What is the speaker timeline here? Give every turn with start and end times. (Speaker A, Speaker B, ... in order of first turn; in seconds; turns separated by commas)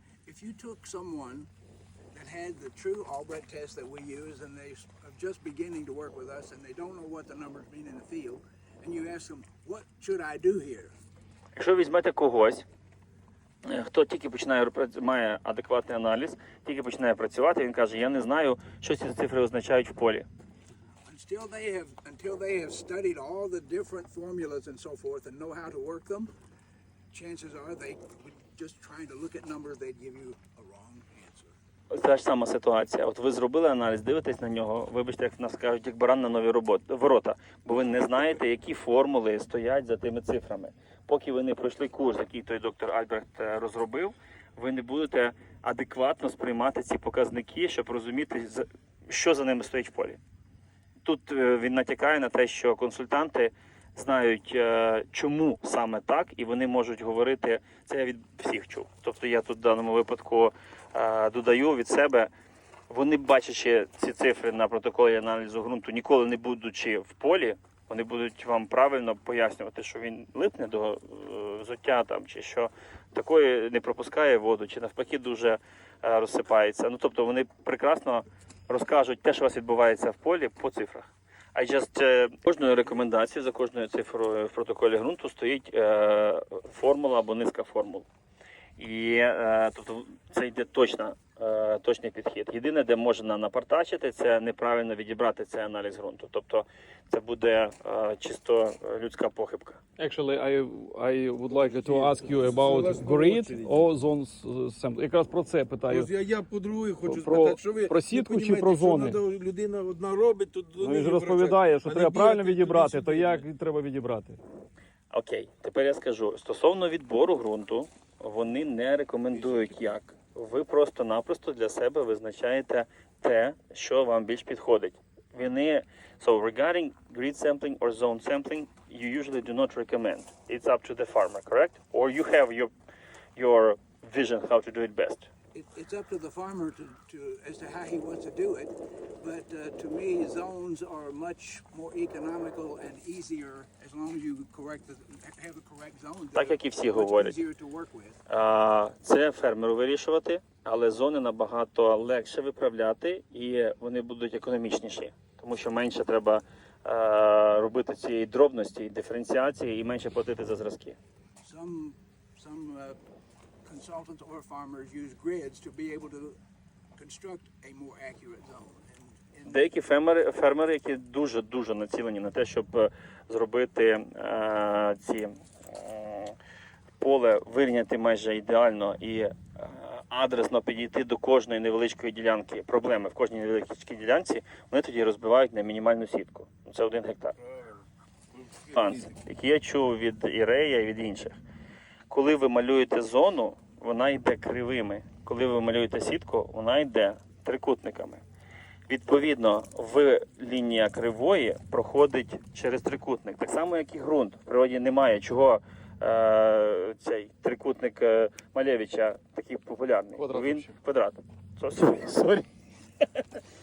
Speaker A: 0.2-1.5, Speaker A: 2.1-10.9, Speaker B: 11.5-12.6, Speaker B: 13.6-20.2, Speaker A: 21.1-26.3, Speaker A: 27.1-31.5, Speaker B: 31.9-50.2, Speaker B: 51.0-62.3, Speaker B: 62.9-88.0, Speaker B: 88.8-99.8, Speaker C: 100.0-106.1, Speaker D: 101.8-103.8, Speaker D: 105.9-113.4, Speaker C: 107.0-109.2, Speaker C: 110.8-114.4, Speaker B: 115.1-132.7, Speaker B: 133.3-135.3, Speaker A: 135.5-148.2, Speaker B: 146.3-147.4, Speaker B: 148.3-161.0, Speaker A: 161.4-163.0, Speaker A: 163.6-166.4, Speaker A: 166.9-169.7, Speaker B: 169.4-176.3, Speaker B: 177.0-187.3, Speaker B: 188.7-191.4, Speaker B: 192.1-198.2, Speaker B: 198.9-212.4, Speaker C: 210.2-210.7